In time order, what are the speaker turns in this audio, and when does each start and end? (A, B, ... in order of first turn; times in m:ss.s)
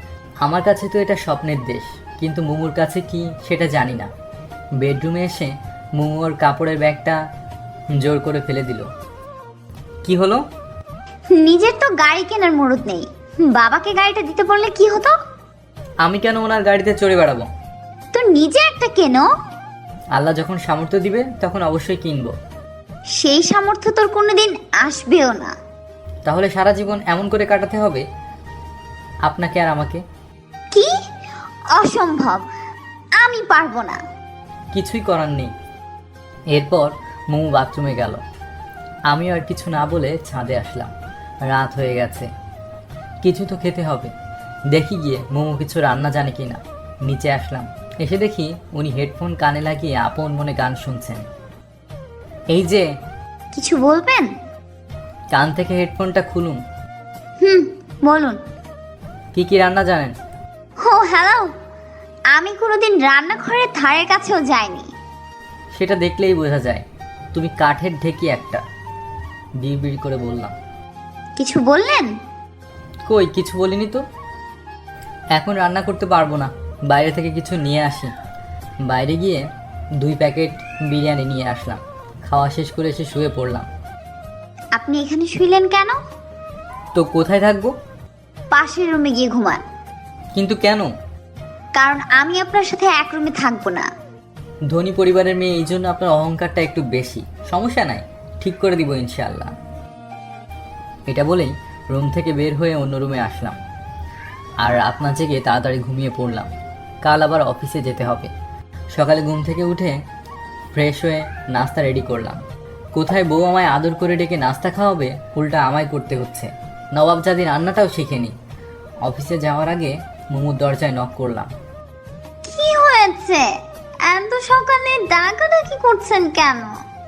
0:00.4-0:04.1 A
0:04.8-0:07.2 A
0:08.0-0:08.9 A
0:10.0-0:10.4 A
0:11.4-0:15.1 B
0:16.0-0:17.5 A
0:18.1-0:19.3 B
0:20.2-0:22.3 A
0:23.2-0:25.5 B
0:26.3-0:28.0 A
0:29.3-0:30.0 A
0:31.8-0:32.4 B
0:33.2-0:34.0 B
0:34.7-0:35.5 A
0:36.5-0:38.2 A
0:39.1-0:40.9 A
0:41.5-0:42.3 A
0:43.2-0:44.1 A
0:44.7-0:51.2 A
0:52.5-0:52.9 A
0:53.5-0:54.3 B
0:55.3-0:56.6 A
0:57.4-0:58.4 B
0:59.4-1:00.1 A
1:00.8-1:01.5 B
1:02.3-1:04.9 B
1:05.8-1:08.6 A
1:09.6-1:10.6 A
1:11.4-1:12.1 B
1:13.1-1:14.0 A
1:15.4-1:18.1 A
1:18.9-1:19.4 A
1:20.0-1:23.7 A
1:24.8-1:26.0 B
1:27.0-1:27.7 A
1:28.5-1:29.6 B
1:30.4-1:30.9 A
1:31.8-1:33.9 B
1:34.7-1:39.5 A
1:41.1-1:43.6 A
1:44.6-1:46.5 A
1:47.0-1:48.3 A
1:48.9-1:50.0 A
1:50.7-1:52.4 A
1:53.0-1:58.3 A
1:59.0-2:01.5 A
2:02.5-2:03.4 B
2:04.1-2:06.7 B